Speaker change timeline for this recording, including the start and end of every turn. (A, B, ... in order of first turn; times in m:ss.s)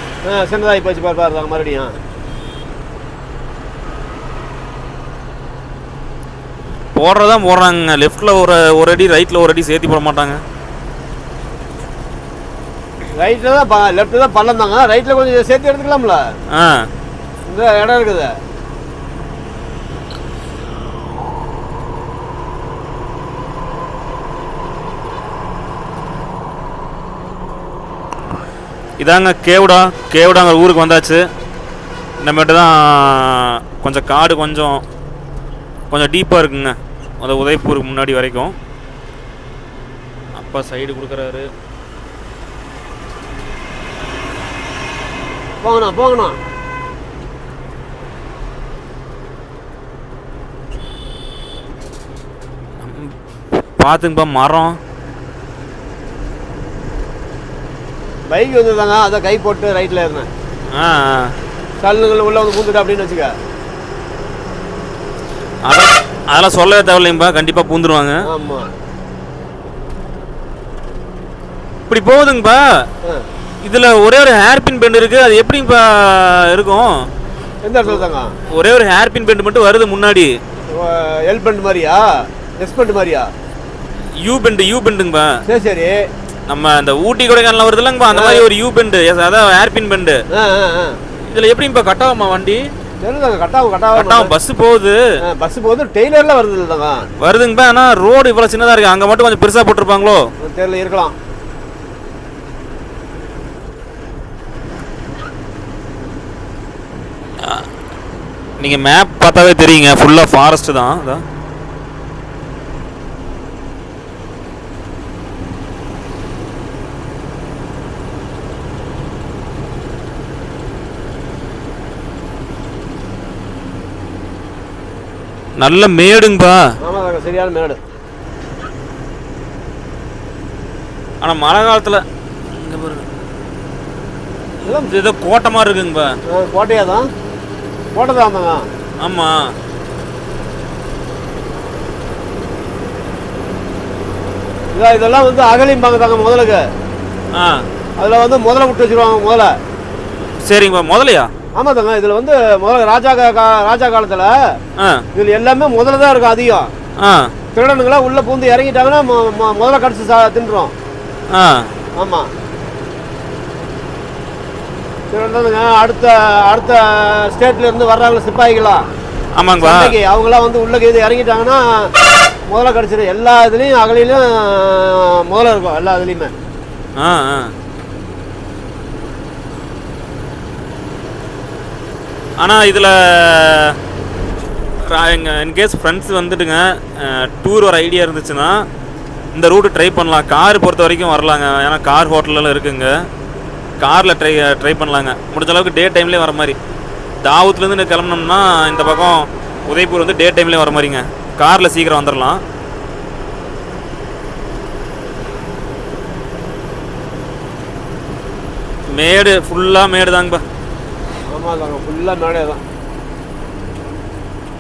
0:00.3-0:02.0 A
0:07.0-0:10.4 B
0:13.2-0:16.4 A
0:16.5-0:16.9 B
0:17.5-0:18.4 A
0:29.0-0:31.3 B
0:32.2-0:34.8 B
0:35.9-0:38.6 B
0:40.4-0:41.5 B
0:45.6-0:46.4 A
0:52.8-0:53.1 B
0:53.8-0:54.8 B
0:58.3-1:00.3 A
1:00.7-1:01.4 B
1:01.8-1:03.4 A
1:05.6-1:08.2 B
1:08.3-1:08.7 A
1:11.9-1:12.9 B
1:13.6-1:17.1 B
1:17.6-1:18.4 A
1:18.5-1:20.4 B
1:20.7-1:23.3 A
1:24.2-1:25.4 B
1:25.5-1:26.0 A
1:26.5-1:30.2 B
1:28.1-1:28.4 A
1:30.3-1:31.0 A
1:31.3-1:32.7 B
1:33.0-1:34.3 A
1:34.0-1:35.0 B
1:35.2-1:37.1 A
1:37.2-1:40.3 B
1:40.4-1:41.2 A
1:47.4-1:47.7 B
1:48.6-1:51.2 B
2:05.6-2:06.7 B
2:06.8-2:07.8 A
2:11.2-2:13.1 B
2:14.6-2:15.0 A
2:14.9-2:16.2 B
2:16.3-2:17.1 A
2:18.0-2:18.7 A
2:19.0-2:19.5 B
2:24.7-2:26.7 A
2:27.3-2:27.6 B
2:28.0-2:29.6 A
2:30.4-2:31.3 B
2:31.6-2:34.6 A
2:34.8-2:35.1 B
2:35.2-2:36.7 A
2:37.0-2:37.3 B
2:37.6-2:40.7 A
2:41.3-2:41.7 B
2:42.0-2:42.3 A
2:45.1-2:48.9 A
2:49.4-2:50.0 B
2:49.6-2:51.9 A
2:52.5-2:56.3 A
2:57.0-2:57.5 B
3:02.4-3:03.8 B
3:04.8-3:08.7 B
3:09.3-3:13.0 B
3:13.8-3:16.6 B
3:17.2-3:22.4 B
3:28.9-3:30.4 B
3:31.3-3:32.6 A